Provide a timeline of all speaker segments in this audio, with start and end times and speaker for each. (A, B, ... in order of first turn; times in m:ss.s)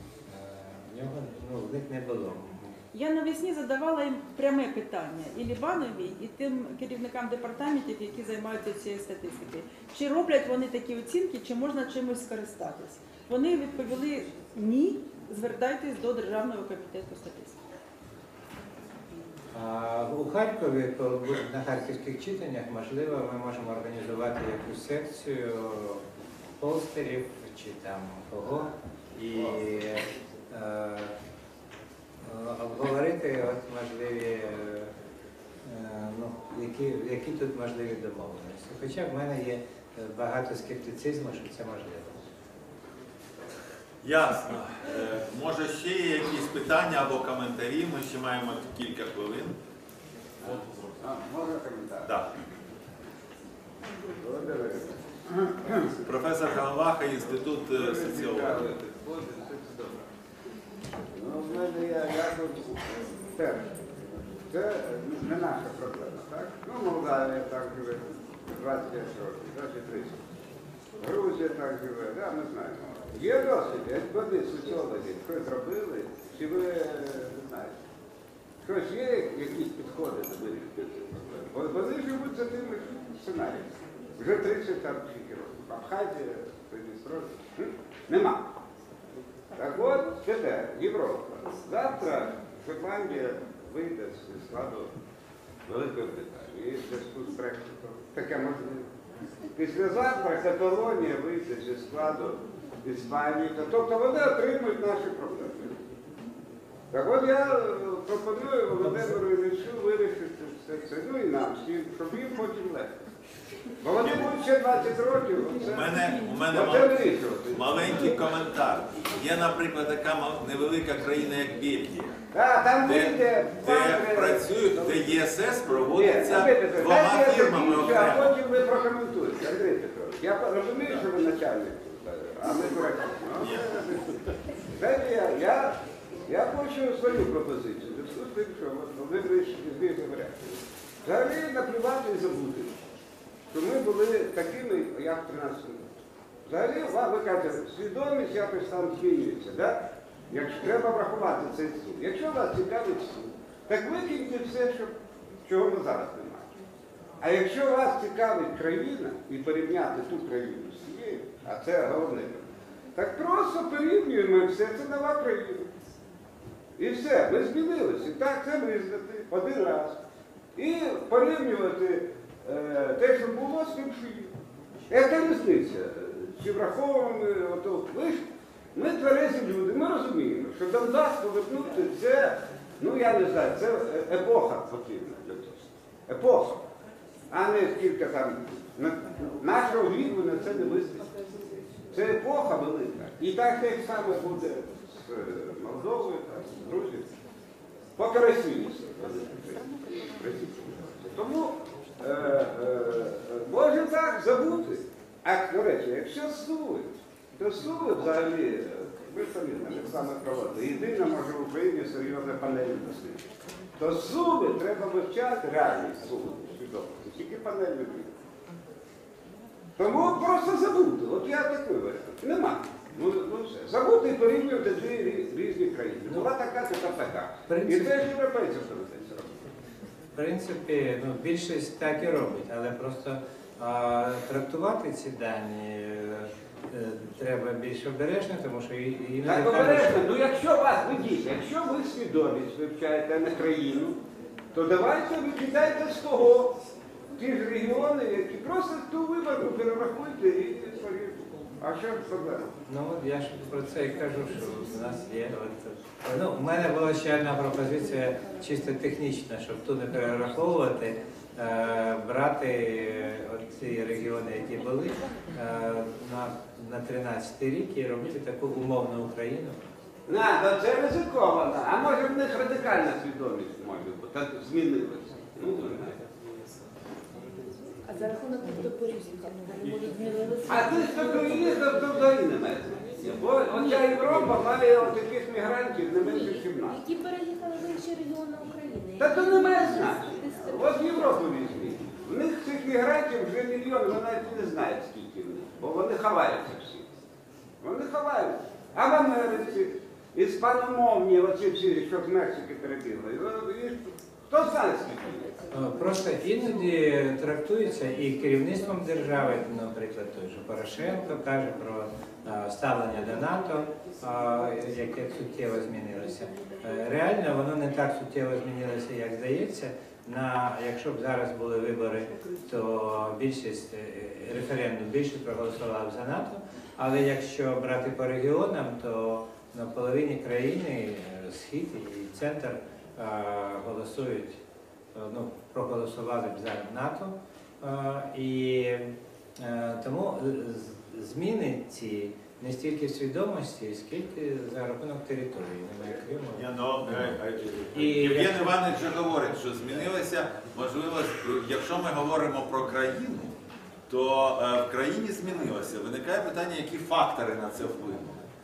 0:00.2-0:02.8 A
0:02.9-0:17.6 B
0:19.5-0:26.0 A
0:26.6-0:31.1 A
0:32.2-0:34.9 A
0:35.6-0:42.2 A
0:44.0-0:49.6 C
0:50.4-0:51.0 C
0:50.4-0:52.1 D
0:52.0-0:52.3 C
0:54.1-0:55.9 D
0:56.0-0:58.6 C
0:57.7-1:00.1 D
1:01.1-1:10.2 D
1:11.0-1:17.7 D
1:18.6-1:28.4 D
1:29.5-1:34.9 D
1:35.6-1:38.9 D
1:39.6-1:45.8 D
1:46.9-1:53.0 D
1:48.9-1:49.1 A
1:53.8-1:58.2 D
1:54.0-1:54.3 C
1:55.6-2:02.2 C
2:02.3-2:05.1 D
2:02.8-2:08.4 C
2:05.9-2:22.8 D
2:13.4-2:13.8 C
2:23.5-2:25.8 D
2:26.5-2:36.5 D
2:37.2-2:45.7 D
2:46.8-2:50.0 D
2:50.6-2:54.4 D
2:54.9-3:06.6 D
3:07.3-3:11.1 D
3:11.9-3:17.1 D
3:18.0-3:33.2 D
3:33.8-3:38.2 D
3:39.8-3:49.5 D
3:47.5-3:48.1 A
3:50.1-4:00.1 A
3:59.2-4:04.0 D
4:04.5-4:06.6 D
4:07.1-4:12.5 D
4:12.6-4:29.6 A
4:30.1-4:36.0 D
4:37.7-4:42.0 E
4:40.4-4:46.8 D
4:43.4-4:44.2 E
4:46.0-4:51.4 E
4:49.0-4:56.9 D
4:57.6-5:05.4 D
5:05.5-5:34.4 A
5:34.9-5:47.2 A
5:46.3-5:53.4 C
5:47.7-5:48.7 A
5:53.9-5:58.2 C